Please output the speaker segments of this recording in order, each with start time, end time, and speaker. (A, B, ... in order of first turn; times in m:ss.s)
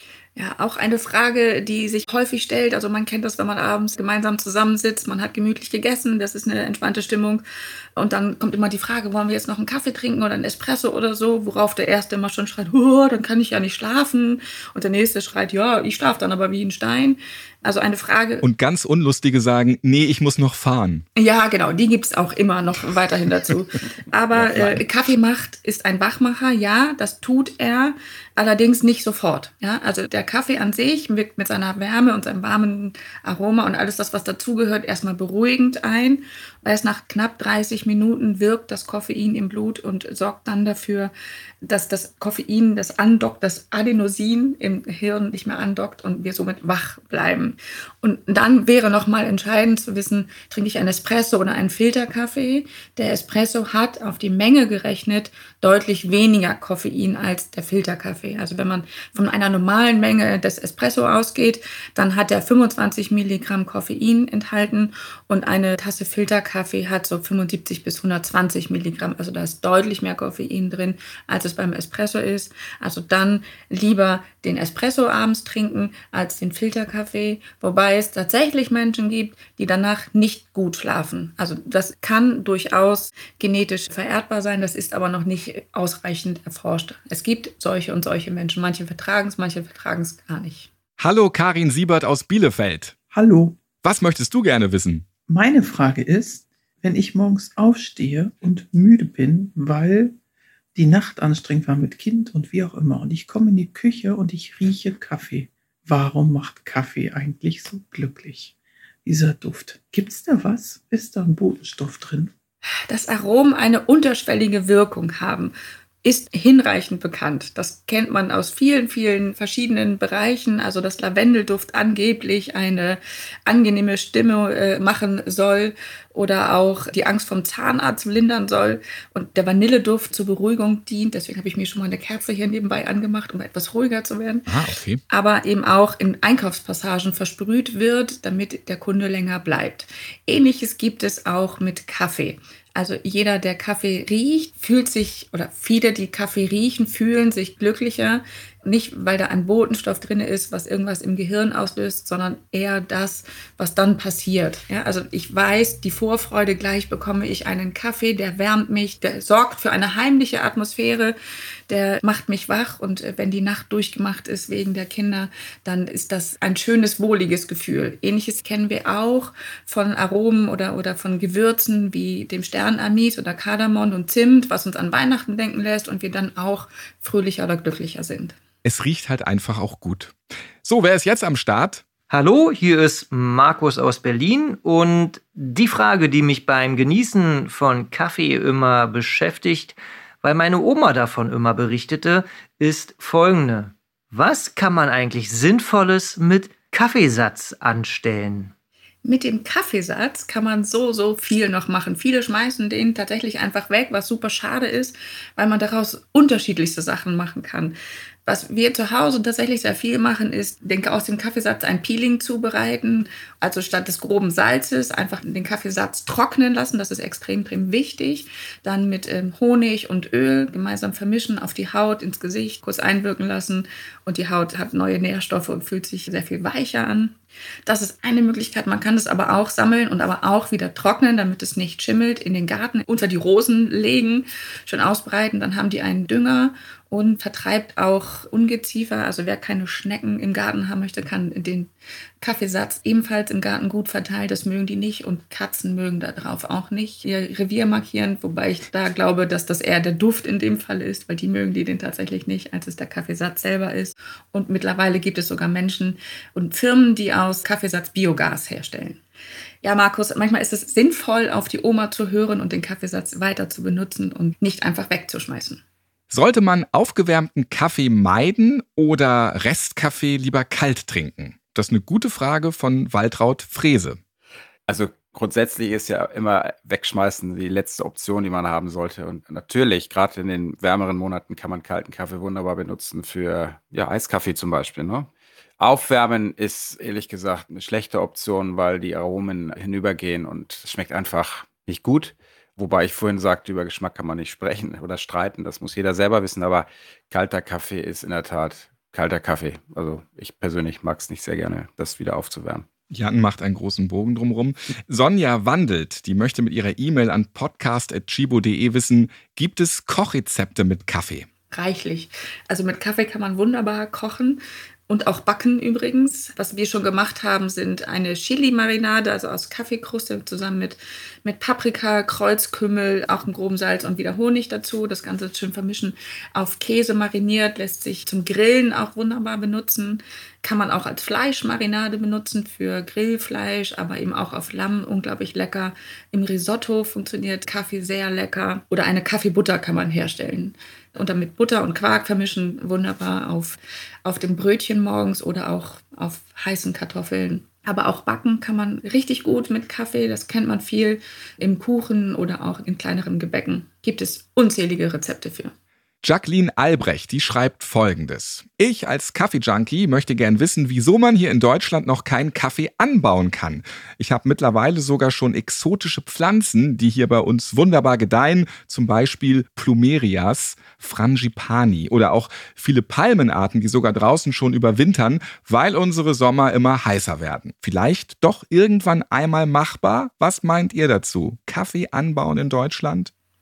0:00.4-0:07.4 A
0:08.0-0:18.4 A
0:18.4-0:21.0 B
0:21.2-0:41.1 A
0:24.3-0:24.8 B
0:41.6-1:30.7 A
1:31.0-1:32.9 B
1:33.1-1:33.6 C
1:33.8-1:35.1 B
1:35.3-1:40.1 C
1:40.7-1:48.5 C
1:49.0-1:52.3 C
1:52.9-1:55.5 A
1:56.0-2:14.4 A
2:14.5-2:15.0 B
2:15.1-2:41.2 A
2:41.7-2:58.4 A
2:58.6-3:01.8 B
3:02.1-3:18.5 D
3:19.0-3:47.1 A
3:47.6-4:19.0 A
4:19.6-4:25.6 A
4:26.1-4:34.0 B
4:34.7-5:02.6 E
5:02.9-5:11.3 B
5:11.5-5:55.5 A
5:56.0-6:23.1 B